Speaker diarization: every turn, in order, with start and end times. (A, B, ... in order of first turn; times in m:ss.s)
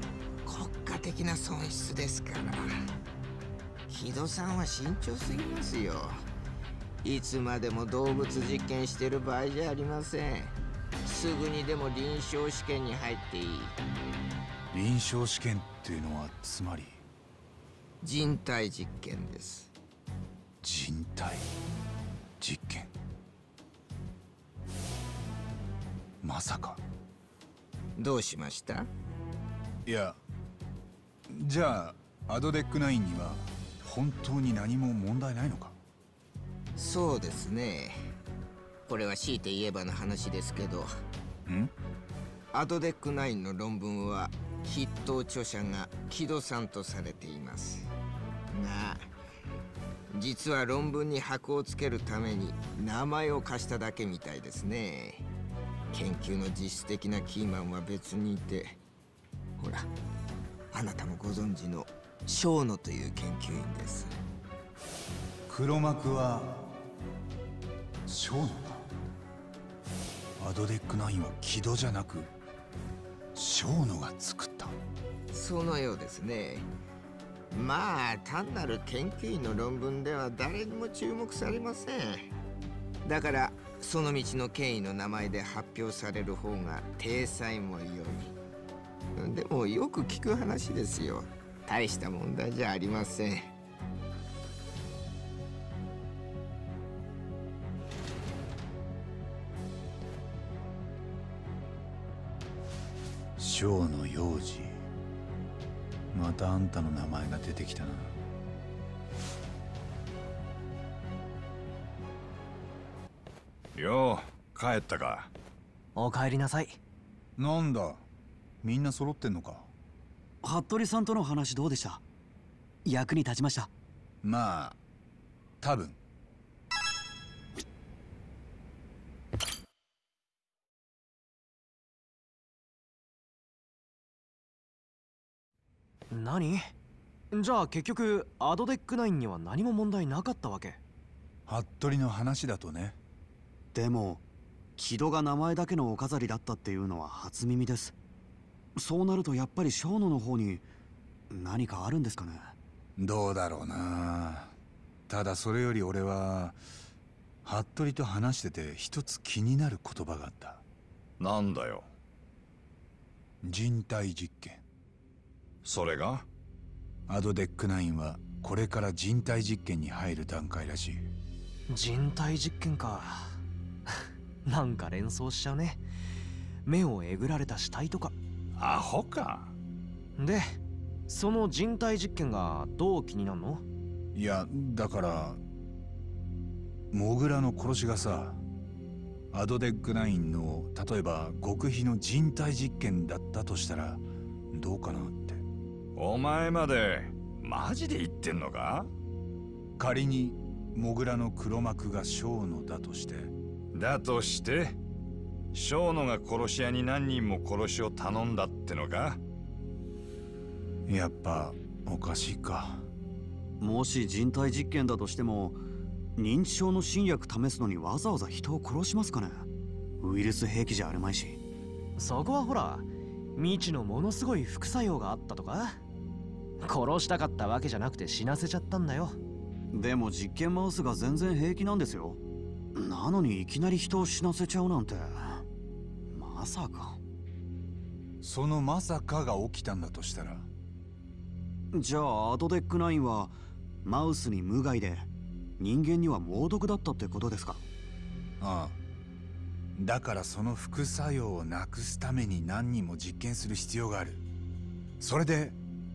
0:00.4-0:02.7 A
0:03.9-0:06.2 A
0:07.0-0:13.8 A
0:14.7-0:17.0 B
0:18.0-0:19.7 A
0:20.6-0:21.5 B
0:22.4-0:22.9 B
0:26.2-0:26.8 B
0:28.0-0:28.9 A
0:29.9-0:30.2 B
0:31.3-0:35.8 B
0:36.8-0:38.0 A
0:38.9-0:40.9 A
0:41.5-0:41.7 B
0:42.5-0:47.9 A
0:48.5-0:49.1 A
0:50.1-0:55.3 A
0:55.9-0:58.8 A
0:59.6-0:59.9 A
1:00.7-1:04.2 A
1:05.5-1:06.6 B
1:08.1-1:08.8 B
1:10.4-1:12.3 B
1:13.3-1:14.8 B
1:15.3-1:16.7 A
1:17.5-1:22.3 A
1:23.0-1:28.3 A
1:29.2-1:33.5 A
1:43.4-1:44.8 B
1:46.1-1:48.1 B
1:53.8-1:55.3 C
1:56.0-1:56.8 D
1:57.4-1:58.0 B
1:58.6-1:59.7 B
2:00.4-2:02.0 E
2:02.8-2:03.7 E
2:04.2-2:04.8 B
2:05.6-2:06.0 B
2:16.1-2:16.7 D
2:17.3-2:20.8 D
2:21.5-2:23.0 B
2:23.7-2:24.2 E
2:24.8-2:28.0 E
2:28.8-2:30.7 E
2:31.3-2:32.6 E
2:33.0-2:34.5 B
2:35.1-2:36.6 B
2:37.4-2:40.6 B
2:41.2-2:41.9 C
2:43.4-2:44.6 B
2:45.6-2:46.3 C
2:47.1-2:51.0 B
2:51.7-2:55.8 D
2:56.6-2:58.2 D
2:58.6-2:59.5 C
3:00.2-3:03.6 D
3:04.2-3:05.4 B
3:06.9-3:08.4 B
3:09.3-3:15.4 B
3:16.0-3:18.9 C
3:19.8-3:23.3 B
3:23.7-3:24.8 C
3:25.5-3:29.2 C
3:30.9-3:32.9 B
3:33.6-3:35.6 E
3:36.2-3:39.5 E
3:40.0-3:41.4 E
3:42.0-3:45.8 D
3:46.6-3:49.2 D
3:49.7-3:52.2 E
3:52.8-3:55.4 E
3:56.1-3:57.0 E
3:58.2-4:00.5 B
4:01.7-4:05.1 E
4:05.6-4:07.6 E
4:08.4-4:08.8 B
4:09.8-4:14.3 B
4:15.0-4:15.6 B